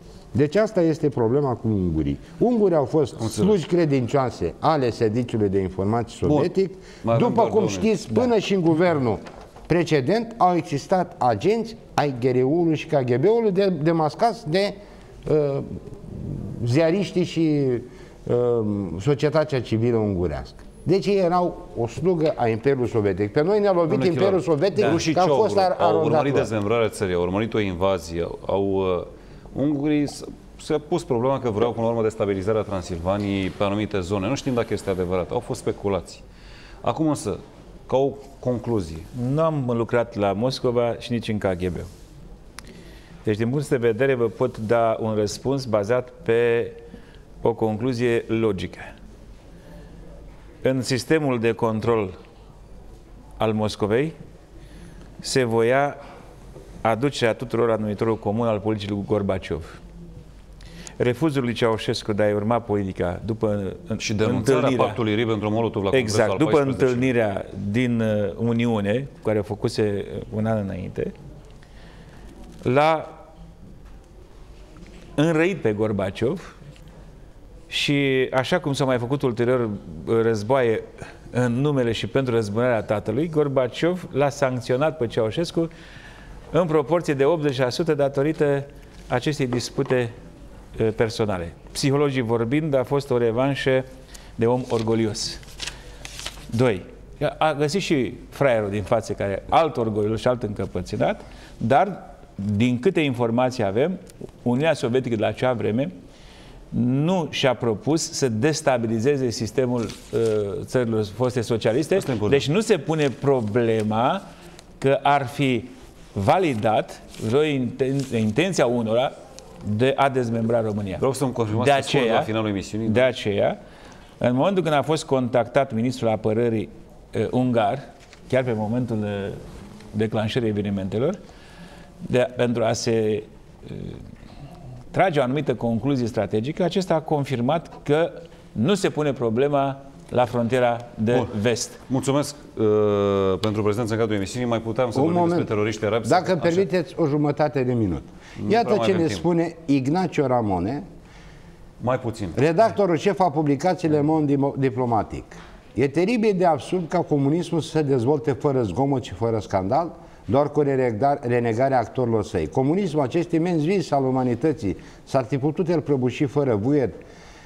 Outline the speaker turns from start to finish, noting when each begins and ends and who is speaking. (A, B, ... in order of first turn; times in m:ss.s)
0:00.3-0:26.5 A
0:03.2-0:03.6 B
0:06.2-0:06.5 B
0:07.0-0:08.2 B
0:23.9-0:36.2 B
0:36.8-0:39.1 B
0:39.2-0:41.9 C
0:43.2-0:46.8 C
0:47.4-0:48.9 C
0:50.6-0:52.1 C
0:53.4-0:54.1 C
0:55.2-0:56.0 C
0:56.8-0:59.8 C
1:01.0-1:05.0 C
1:04.0-1:07.1 B
1:05.9-1:11.1 C
1:12.6-1:13.1 C
1:15.2-1:16.5 C
1:17.7-1:25.7 C
1:26.5-1:30.1 C
1:30.8-1:33.8 C
1:34.4-1:35.4 C
1:36.5-1:45.9 C
1:46.7-1:54.2 C
1:52.0-1:52.4 B
1:54.8-2:02.3 C
2:01.0-2:03.1 B
2:02.8-2:03.6 C
2:04.2-2:09.4 C
2:09.9-2:11.2 C
2:12.0-2:14.0 C
2:14.9-2:21.8 C
2:21.9-2:26.7 B
2:24.9-2:25.5 A
2:26.0-2:30.8 A
2:28.4-2:29.2 B
2:31.8-2:32.4 B
2:32.4-2:47.0 A